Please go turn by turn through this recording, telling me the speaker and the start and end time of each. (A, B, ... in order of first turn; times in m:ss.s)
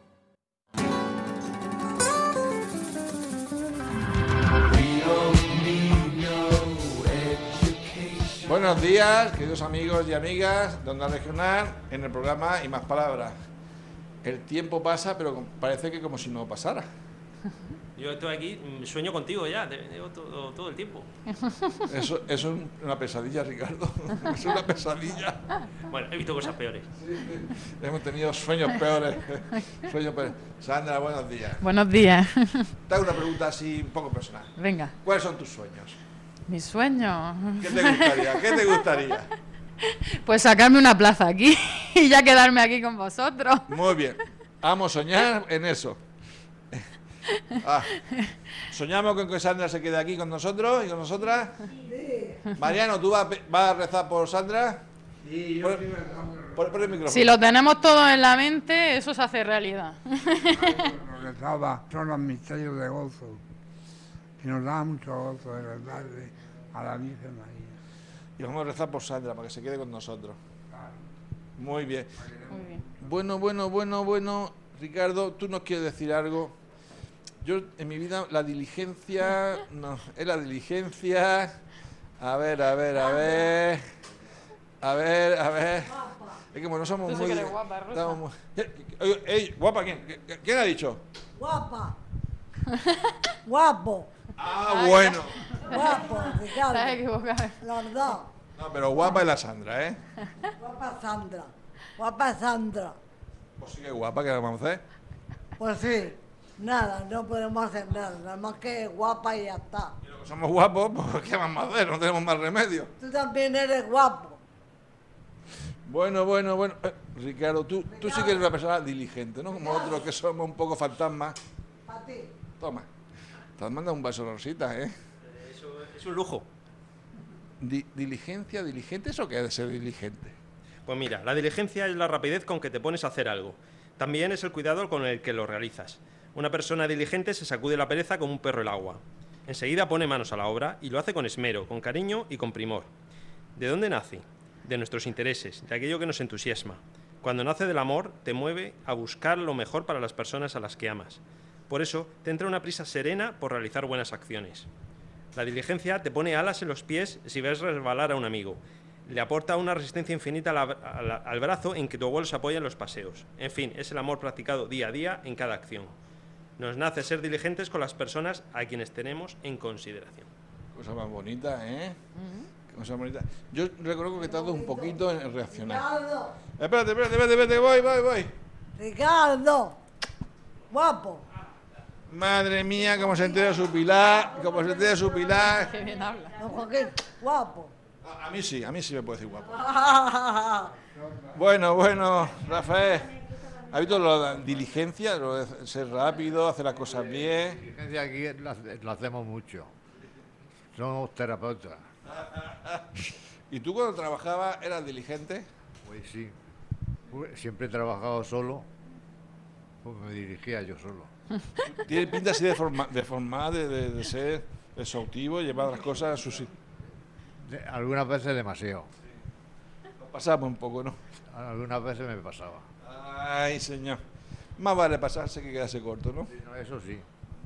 0:05.8-0:06.1 A
0:08.4-0:13.3 A
0:14.2-0:16.8 A
0:18.0-0:21.1 B
0:21.9-0:25.4 A
0:25.9-0:26.9 B
0:27.0-0:31.6 A
0:31.6-0:32.7 C
0:32.9-0:36.0 A
0:34.6-0:34.9 C
0:36.5-0:38.7 C
0:37.6-0:39.3 A
0:39.9-0:43.8 C
0:43.7-0:46.0 A
0:47.6-0:47.9 A
0:48.7-0:51.5 A
0:51.8-0:52.4 D
0:52.6-0:54.8 A
0:55.2-0:56.6 E
0:56.6-0:57.4 A
0:57.0-1:00.9 C
1:00.6-1:03.4 E
1:04.4-1:07.7 E
1:08.4-1:10.4 A
1:11.6-1:12.1 A
1:12.2-1:12.6 E
1:12.5-1:12.8 C
1:13.0-1:16.5 A
1:17.4-1:21.5 A
1:22.2-1:23.8 A
1:24.8-1:25.9 A
1:25.8-1:26.4 D
1:26.5-1:31.0 A
1:27.0-1:28.2 C
1:31.4-1:32.0 D
1:33.4-1:34.1 D
1:34.4-1:35.4 A
1:34.7-1:37.6 C
1:35.6-1:37.0 D
1:37.6-1:38.3 D
1:38.6-1:40.0 A
1:40.6-1:43.0 D
1:43.6-1:44.8 A
1:45.6-1:49.9 D
1:50.0-1:52.9 A
1:53.0-1:54.4 D
1:55.8-2:01.4 A
1:57.9-1:58.4 D
1:59.5-2:00.0 D
2:01.8-2:02.3 D
2:02.6-2:02.8 A
2:03.6-2:04.9 A
2:05.4-2:06.4 B
2:07.6-2:10.3 A
2:10.9-2:22.9 B
2:23.6-2:34.7 B
2:35.3-2:45.9 B
2:46.6-2:50.3 B
2:50.8-2:52.0 A
2:52.7-2:55.8 A
2:54.2-2:56.3 D
2:56.6-2:58.3 A
2:58.8-2:59.8 D
3:00.7-3:01.2 D
3:02.1-3:05.7 A
3:05.3-3:06.4 C
3:06.4-3:07.7 D
3:08.0-3:09.6 A
3:09.6-3:10.7 D
3:11.3-3:13.2 A
3:13.7-3:17.6 A
3:17.5-3:19.7 F
3:20.7-3:21.8 F
3:22.1-3:22.9 A
3:23.5-3:25.4 A
3:25.8-3:26.4 F
3:27.1-3:28.6 F
3:29.8-3:31.1 F
3:31.8-3:36.5 A
3:37.4-3:38.9 F
3:40.0-3:41.0 A
3:41.3-3:42.6 F
3:42.8-3:44.0 A
3:44.6-3:46.3 A
3:46.3-3:47.0 F